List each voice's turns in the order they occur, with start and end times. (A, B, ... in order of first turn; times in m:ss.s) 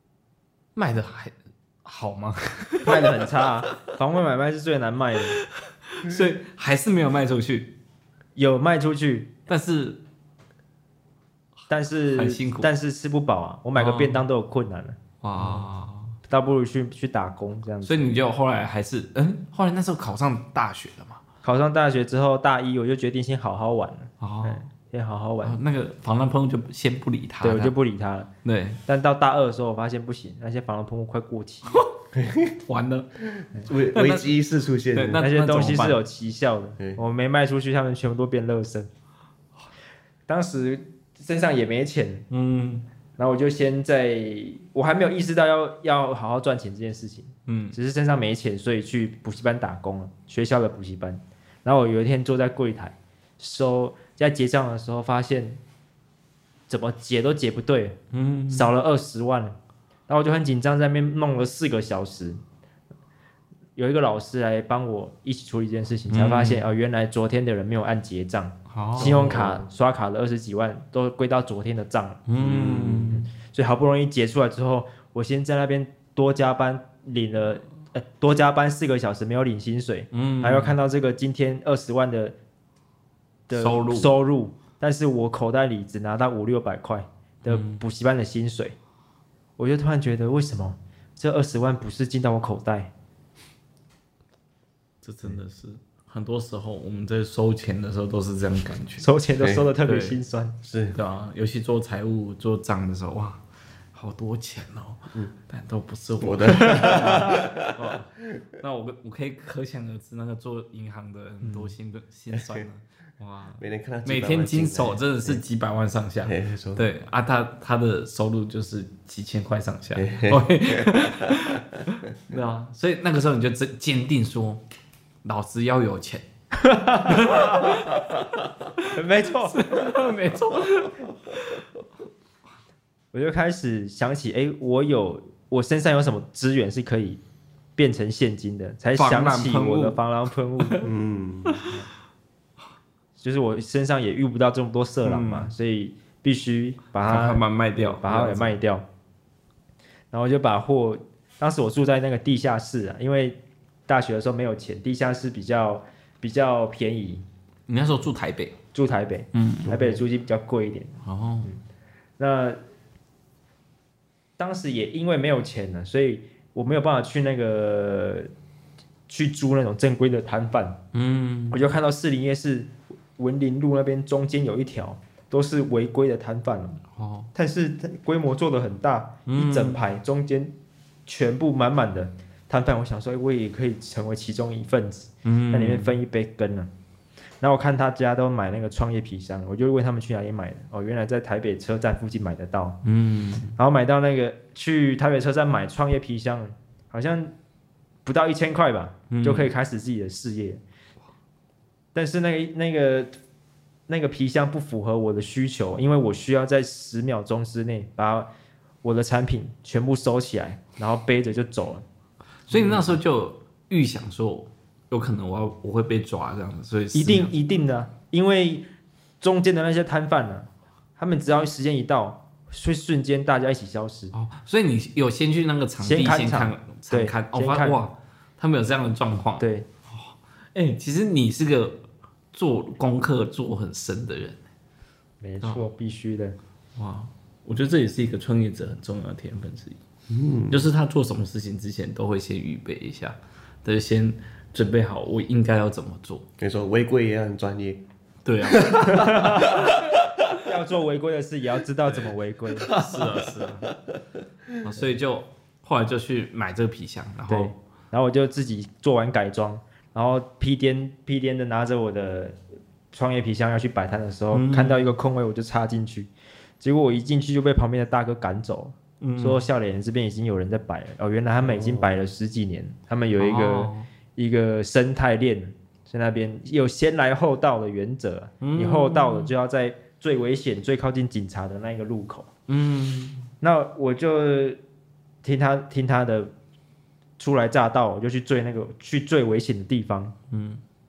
0:00.8-0:03.2 A
0:02.8-0:05.4 B
0:05.6-0:07.7 A
0:08.4-0:09.3 B
0:09.5-0:10.0 A
0:11.7-0:15.6 B
0:12.1-0:12.7 A
0:13.8-0:14.2 A
0:15.2-0:16.2 A
0:16.3-0:18.1 B
0:17.8-0:21.2 A
0:21.4-0:25.6 B
0:24.2-0:24.6 A
0:25.4-0:27.7 A
0:27.4-0:28.3 B
0:28.4-0:28.8 A
0:28.8-0:31.8 B
0:32.1-0:32.6 C
0:32.6-0:33.1 A
0:33.2-0:35.2 C
0:33.9-0:34.3 A
0:34.9-0:36.0 A
0:35.2-0:38.9 B
0:40.3-0:42.3 B
0:42.3-0:42.8 A
0:43.2-0:55.6 B
0:47.5-0:47.8 A
0:56.7-0:58.0 B
0:58.1-0:58.7 A
0:58.5-0:59.6 B
1:00.1-1:02.4 B
1:03.8-1:22.3 B
1:06.1-1:06.6 A
1:08.7-1:09.5 A
1:09.0-1:09.6 C
1:12.3-1:13.3 A
1:12.4-1:13.1 C
1:20.1-1:20.7 A
1:23.5-1:28.7 B
1:23.5-1:24.1 A
1:27.4-1:27.8 A
1:29.6-1:32.9 B
1:35.0-1:39.1 A
1:39.0-1:40.6 B
1:39.4-1:39.7 C
1:39.8-1:40.2 A
1:40.6-1:41.0 C
1:40.9-1:43.4 A
1:43.9-2:04.6 A
1:46.2-1:47.7 C
1:51.4-1:51.7 B
1:52.3-1:52.6 C
1:53.6-1:55.4 C
1:56.2-1:56.8 C
2:00.0-2:01.6 C
2:05.2-2:06.2 A
2:06.5-2:07.8 B
2:07.0-2:08.1 A
2:08.8-2:11.6 A
2:08.9-2:09.6 B
2:13.1-2:17.2 B
2:17.8-2:20.8 B
2:19.0-2:20.0 A
2:20.6-2:20.8 A
2:20.8-2:21.6 C
2:23.2-2:28.8 B
2:25.0-2:25.5 A
2:27.0-2:28.6 A
2:30.1-2:37.2 B
2:37.7-2:38.6 A
2:38.7-2:41.6 B
2:39.3-2:39.8 A
2:41.0-2:41.5 A
2:42.2-2:42.6 B
2:44.4-2:48.3 B
2:49.1-2:50.8 B
2:50.9-2:51.6 A
2:51.5-2:56.8 B
2:56.9-2:57.3 A
2:57.3-3:00.5 B
2:59.2-2:59.8 A
3:01.1-3:06.7 B
3:05.2-3:05.9 A
3:07.4-3:12.8 B
3:12.8-3:13.6 A
3:13.6-3:17.3 B
3:18.0-3:20.6 B
3:19.1-3:19.5 A
3:21.9-3:23.2 B
3:23.9-3:28.3 B
3:28.8-3:31.8 B
3:32.5-3:37.3 A
3:32.5-3:33.0 B
3:36.9-3:38.7 B
3:39.2-3:44.1 B
3:44.1-3:54.4 A
3:45.8-3:47.8 B
3:49.4-3:49.7 B
3:55.2-3:56.4 B
3:56.8-3:59.8 A
4:00.1-4:00.7 C
4:00.5-4:06.2 A
4:06.4-4:07.8 C
4:08.2-4:09.8 A
4:08.5-4:09.7 C
4:09.2-4:09.4 B
4:10.4-4:12.7 B
4:12.6-4:13.7 A
4:14.6-4:17.5 A
4:17.3-4:22.4 B
4:22.9-4:42.3 B
4:24.3-4:24.9 A
4:29.0-4:29.4 A
4:31.4-4:31.9 C
4:33.2-4:33.9 A
4:38.4-4:39.3 A
4:42.5-4:43.3 A
4:43.4-4:44.6 B
4:45.2-4:46.3 B
4:47.2-4:50.1 B
4:50.3-4:50.6 A